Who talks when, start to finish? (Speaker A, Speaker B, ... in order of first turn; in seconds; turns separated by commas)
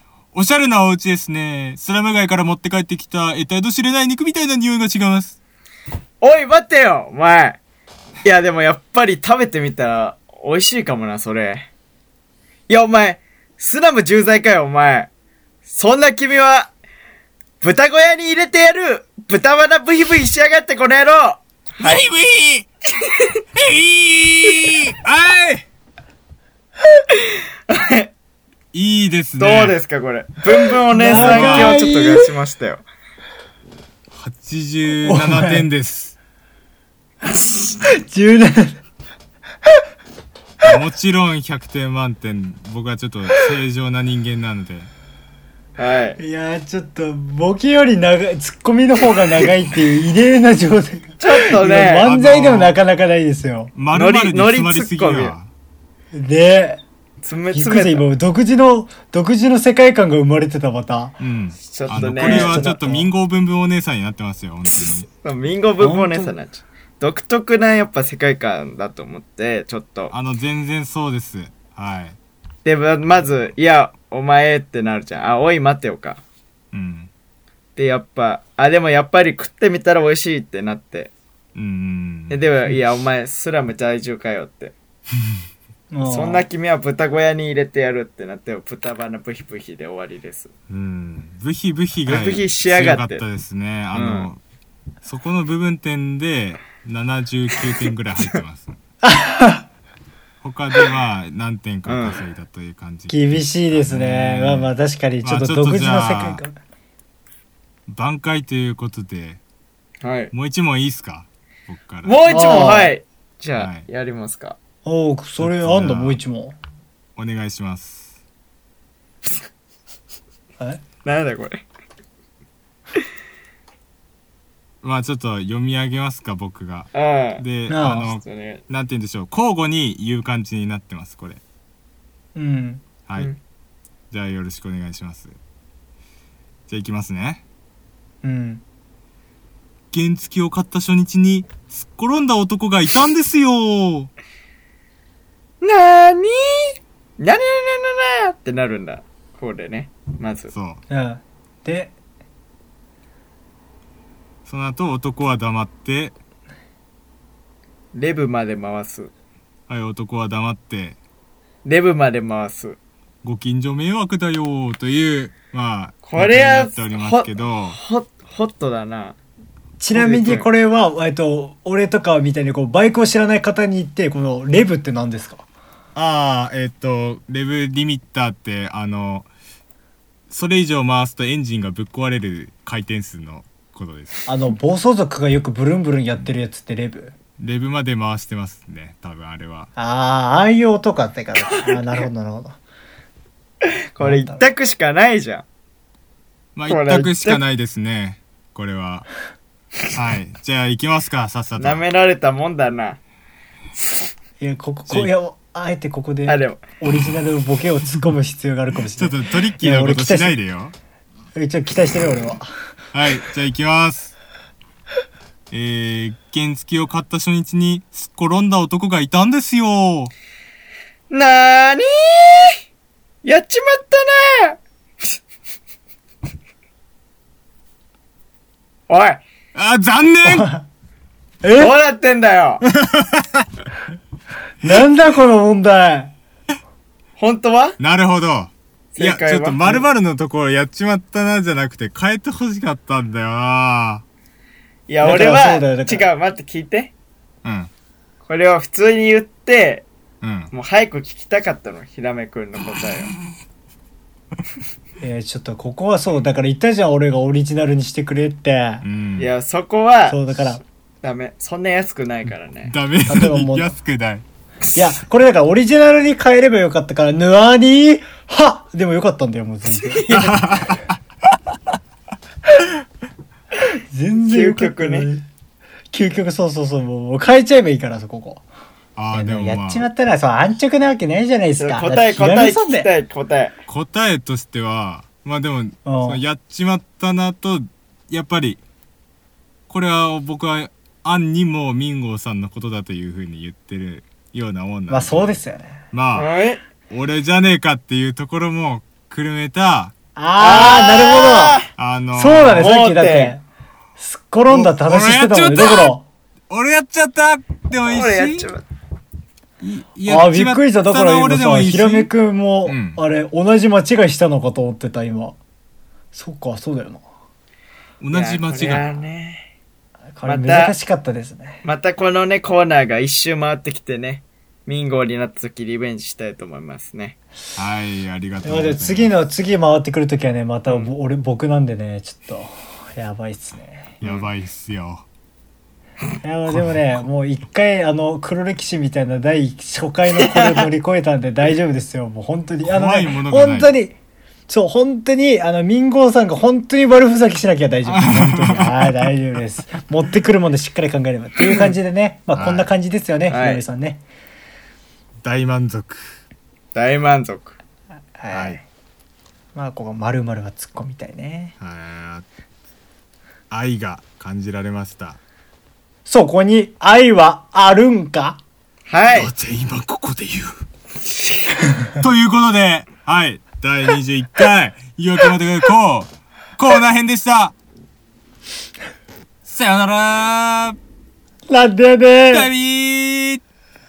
Speaker A: 0.3-5.4, Speaker B: 6.2-7.6, Speaker B: 8.2-11.7, Speaker B: 12.7-15.1, Speaker B: 15.7-16.7, Speaker B: 17.6-22.1, Speaker A: 21.8-22.7, Speaker B: 23.0-23.4, Speaker A: 23.6-25.7, Speaker B: 27.1-28.1, Speaker A: 28.7-29.8, Speaker B: 29.4-32.8, Speaker C: 30.9-32.3, Speaker A: 31.1-31.8, Speaker A: 34.1-36.2, Speaker C: 34.9-35.7, Speaker B: 37.3-37.7, Speaker C: 37.8-38.8, Speaker A: 40.6-44.9, Speaker B: 45.8-46.2, Speaker C: 46.2-53.7, Speaker B: 51.2-52.1, Speaker A: 52.0-52.8, Speaker A: 53.8-55.5, Speaker B: 53.9-55.4, Speaker C: 56.1-56.8, Speaker B: 57.2-58.1, Speaker C: 57.5-61.2, Speaker A: 61.2-65.1, Speaker B: 61.7-62.8, Speaker C: 61.9-63.1, Speaker B: 65.2-70.1, Speaker C: 65.8-66.3, Speaker A: 70.1-72.2, Speaker B: 72.7-76.2, Speaker A: 76.7-77.1, Speaker B: 77.8-81.1, Speaker A: 81.5-82.4, Speaker B: 82.3-84.7, Speaker C: 85.9-86.5, Speaker B: 86.0-90.5, Speaker A: 90.7-94.4, Speaker B: 92.1-93.2, Speaker B: 93.9-94.3, Speaker A: 95.0-98.8, Speaker C: 99.0-99.7, Speaker A: 100.4-106.4, Speaker B: 101.9-102.2, Speaker C: 103.1-106.6, Speaker A: 107.9-109.4, Speaker B: 110.0-110.3, Speaker A: 110.3-112.2, Speaker B: 112.0-114.6, Speaker C: 112.3-112.9, Speaker A: 113.6-113.9, Speaker C: 114.8-116.6, Speaker A: 115.4-116.2, Speaker A: 117.2-118.2, Speaker B: 121.0-121.6, Speaker A: 124.8-131.4, Speaker B: 126.9-127.4, Speaker C: 127.7-128.1, Speaker B: 128.2-128.6, Speaker C: 132.3-132.8, Speaker A: 134.1-135.4, Speaker A: 136.7-137.4, Speaker C: 138.2-138.6, Speaker A: 139.9-144.1, Speaker B: 145.6-150.5, Speaker A: 150.5-150.8, Speaker C: 150.9-151.9, Speaker A: 154.4-156.2, Speaker B: 157.9-159.1, Speaker A: 159.7-161.0, Speaker B: 161.7-162.8, Speaker A: 163.2-167.8, Speaker B: 166.0-169.2, Speaker C: 169.8-175.4, Speaker B: 169.9-170.5, Speaker A: 175.9-179.3, Speaker A: 180.3-184.2, Speaker C: 184.3-187.1, Speaker A: 187.4-189.7, Speaker C: 189.8-192.6, Speaker B: 191.5-191.8, Speaker B: 193.9-195.4, Speaker C: 194.0-194.5, Speaker A: 196.6-199.1, Speaker B: 196.7-197.4, Speaker A: 199.9-201.8, Speaker B: 201.6-203.0, Speaker B: 203.8-204.1, Speaker C: 204.4-210.4, Speaker B: 206.3-206.6, Speaker A: 209.0-210.7, Speaker C: 211.4-212.5, Speaker A: 212.9-214.1, Speaker A: 215.5-220.1, Speaker B: 221.1-222.6, Speaker B: 223.2-225.1, Speaker B: 228.9-229.2, Speaker A: 229.5-230.5, Speaker C: 230.2-230.7, Speaker C: 231.4-231.7, Speaker B: 231.6-232.6, Speaker A: 232.7-233.5, Speaker C: 234.6-236.1, Speaker B: 237.2-237.8, Speaker A: 237.8-244.0, Speaker B: 238.9-239.8, Speaker B: 244.9-246.9, Speaker C: 245.0-246.1, Speaker A: 247.4-247.7, Speaker B: 248.3-249.9, Speaker A: 250.2-250.5, Speaker B: 250.5-253.2, Speaker C: 255.0-258.9, Speaker A: 258.8-259.3, Speaker B: 259.2-260.2, Speaker C: 260.1-260.6, Speaker B: 261.0-262.7, Speaker A: 262.7-264.2, Speaker C: 263.1-263.7, Speaker C: 264.7-270.8, Speaker B: 269.8-270.4, Speaker A: 270.1-271.0, Speaker C: 273.9-275.3, Speaker B: 274.2-275.1, Speaker C: 275.9-278.4, Speaker A: 279.0-279.9, Speaker C: 279.1-282.9, Speaker B: 281.6-283.5, Speaker A: 283.7-288.6, Speaker C: 285.9-286.2, Speaker A: 289.7-295.4, Speaker C: 294.9-295.8, Speaker A: 295.9-296.3, Speaker B: 296.2-296.6, Speaker A: 296.9-299.9, Speaker C: 300.2-301.6, Speaker B: 300.4-301.7, Speaker A: 301.8-302.8, Speaker C: 302.1-303.4, Speaker B: 302.6-303.4, Speaker C: 304.0-306.1, Speaker A: 304.5-305.9, Speaker A: 306.5-308.5, Speaker B: 307.9-308.6, Speaker A: 309.6-312.1, Speaker C: 310.1-315.4, Speaker A: 312.7-313.0, Speaker C: 316.1-317.0, Speaker A: 318.0-318.9, Speaker B: 318.1-319.5, Speaker C: 320.2-321.6, Speaker B: 320.2-320.8, Speaker B: 321.6-327.2, Speaker A: 327.6-329.1, Speaker C: 328.4-334.0, Speaker A: 334.0-335.1, Speaker B: 334.0-334.3, Speaker C: 336.2-344.0, Speaker A: 336.5-337.0, Speaker A: 342.6-343.7, Speaker C: 344.5-354.0, Speaker A: 347.9-348.9, Speaker A: 352.4-352.7, Speaker B: 353.3-353.6, Speaker A: 355.2-356.0, Speaker B: 356.7-357.6, Speaker C: 358.2-358.6, Speaker A: 358.3-358.6, Speaker C: 359.6-361.5, Speaker A: 361.6-362.2, Speaker A: 363.5-365.2, Speaker C: 366.1-368.4, Speaker B: 368.9-369.3, Speaker A: 369.1-370.6, Speaker B: 371.1-371.5, Speaker A: 372.0-377.5, Speaker A: 379.4-380.8, Speaker C: 381.5-382.5, Speaker A: 382.3-383.4